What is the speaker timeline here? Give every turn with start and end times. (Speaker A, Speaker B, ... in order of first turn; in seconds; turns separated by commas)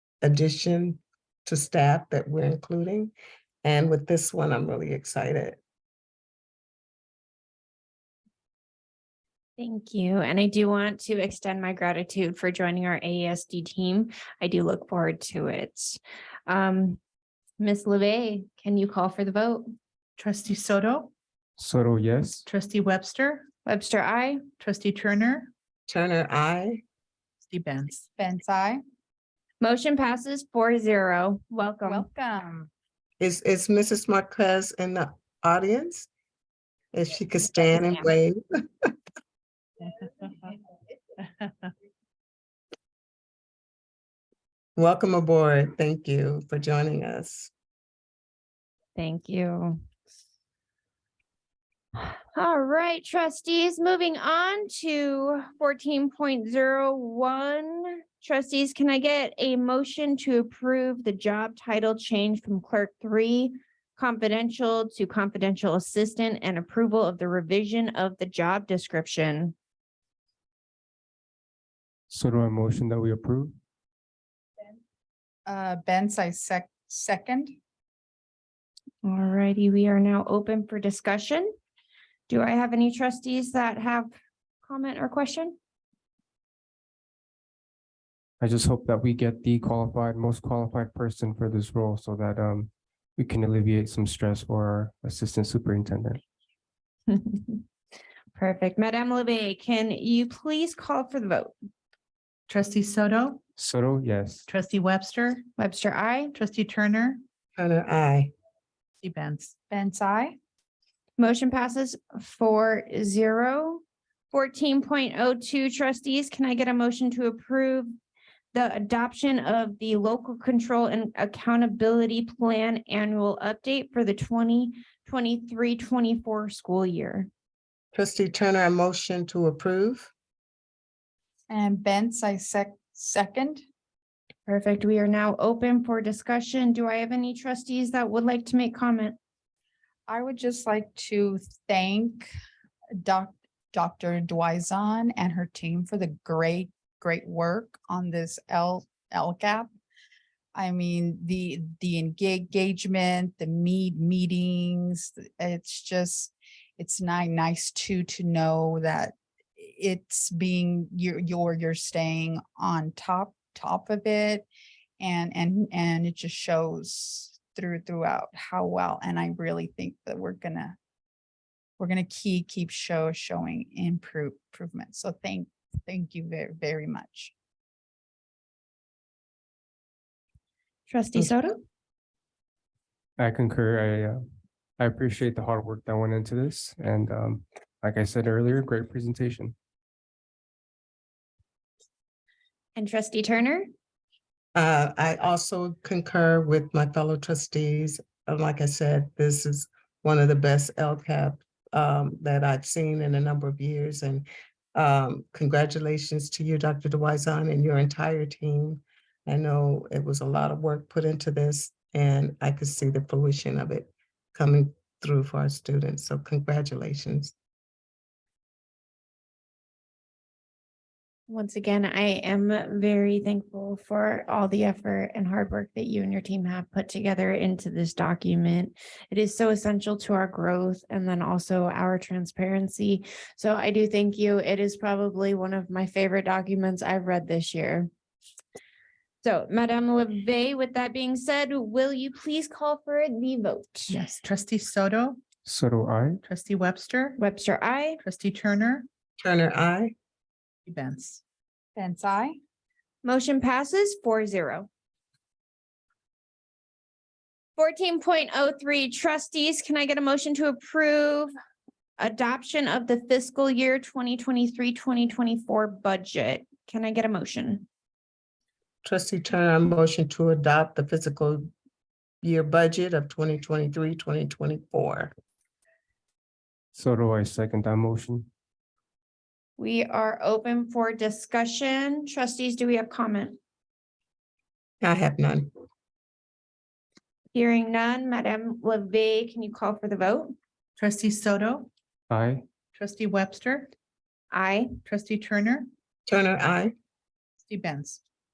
Speaker A: 0.2-3.1, Speaker A: 3.6-5.6, Speaker B: 9.6-17.0, Speaker B: 17.6-19.6, Speaker C: 20.2-21.1, Speaker D: 21.6-22.4, Speaker C: 22.4-23.5, Speaker B: 23.6-24.4, Speaker C: 24.6-25.5, Speaker A: 25.9-26.8, Speaker C: 27.5-28.1, Speaker E: 28.1-28.8, Speaker B: 29.6-32.1, Speaker E: 31.8-32.7, Speaker A: 33.2-36.1, Speaker A: 36.9-38.4, Speaker A: 44.8-47.5, Speaker B: 49.0-49.8, Speaker B: 51.9-69.5, Speaker D: 72.1-73.5, Speaker E: 75.5-77.5, Speaker B: 79.0-81.5, Speaker B: 82.3-85.6, Speaker D: 88.4-96.2, Speaker B: 97.1-97.6, Speaker B: 98.3-101.5, Speaker C: 102.5-103.4, Speaker D: 103.6-104.5, Speaker C: 104.5-105.5, Speaker B: 105.6-106.3, Speaker C: 106.3-107.2, Speaker A: 107.6-108.3, Speaker C: 109.0-109.5, Speaker E: 109.7-110.4, Speaker B: 111.2-117.9, Speaker B: 118.5-127.3, Speaker A: 127.9-130.1, Speaker E: 131.5-133.6, Speaker B: 134.5-139.2, Speaker E: 140.1-142.3, Speaker E: 143.0-149.7, Speaker E: 150.5-164.5, Speaker E: 165.0-170.8, Speaker E: 171.8-177.3, Speaker B: 180.9-181.6, Speaker D: 183.2-184.2, Speaker D: 184.8-189.5, Speaker B: 192.8-193.7, Speaker A: 194.5-217.3, Speaker B: 221.3-237.9, Speaker B: 239.2-244.0, Speaker C: 243.9-245.2, Speaker D: 245.4-246.2, Speaker C: 246.2-247.2, Speaker B: 247.2-248.0, Speaker C: 248.0-248.9, Speaker A: 249.2-249.9, Speaker C: 250.7-251.2, Speaker E: 251.8-252.4, Speaker B: 253.0-254.7, Speaker B: 257.6-261.3, Speaker B: 262.0-267.6, Speaker A: 268.8-271.5, Speaker A: 272.2-275.1, Speaker D: 276.7-278.3, Speaker B: 279.6-283.4, Speaker A: 284.8-285.5, Speaker B: 287.3-290.3, Speaker C: 290.8-291.7, Speaker D: 292.1-292.4, Speaker C: 292.8-293.7, Speaker B: 294.3-294.7, Speaker C: 294.8-295.7, Speaker A: 296.1-296.7, Speaker C: 297.4-298.0